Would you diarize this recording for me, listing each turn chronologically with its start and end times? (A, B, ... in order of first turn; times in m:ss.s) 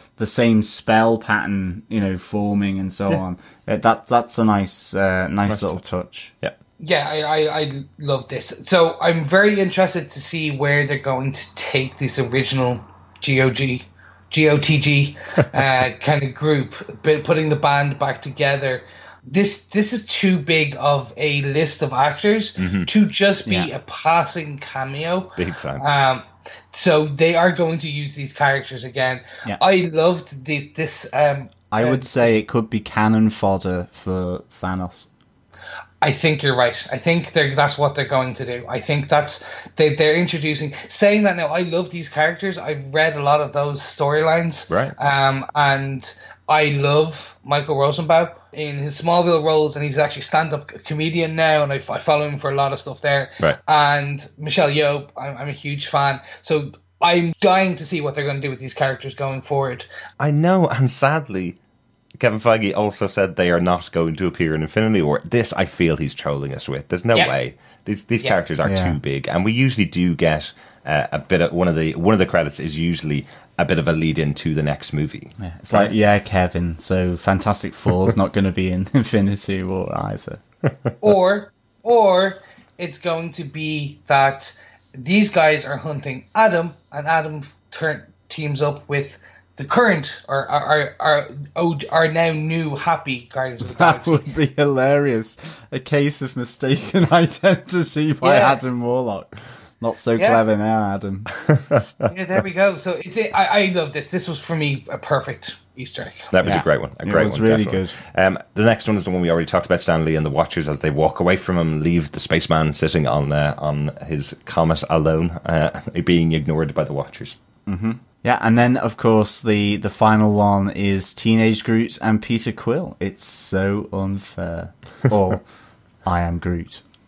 0:00.2-0:06.3 A
0:05.5-0:05.8 B
0:06.8-0:32.4 C
0:22.6-0:22.9 B
0:23.4-0:23.7 A
0:25.4-0:25.8 B
0:31.7-0:35.1 A
0:36.0-0:59.9 C
0:44.7-0:44.9 B
1:00.2-1:01.6 B
1:02.2-1:15.9 B
1:08.6-1:09.0 A
1:15.4-1:20.4 A
1:21.0-1:34.2 C
1:33.7-1:41.3 A
1:38.2-1:38.6 C
1:40.2-1:40.4 C
1:41.4-1:42.1 B
1:42.0-1:46.3 C
1:46.3-1:57.4 B
1:46.4-1:48.0 A
1:57.6-2:05.4 A
2:06.0-2:06.8 A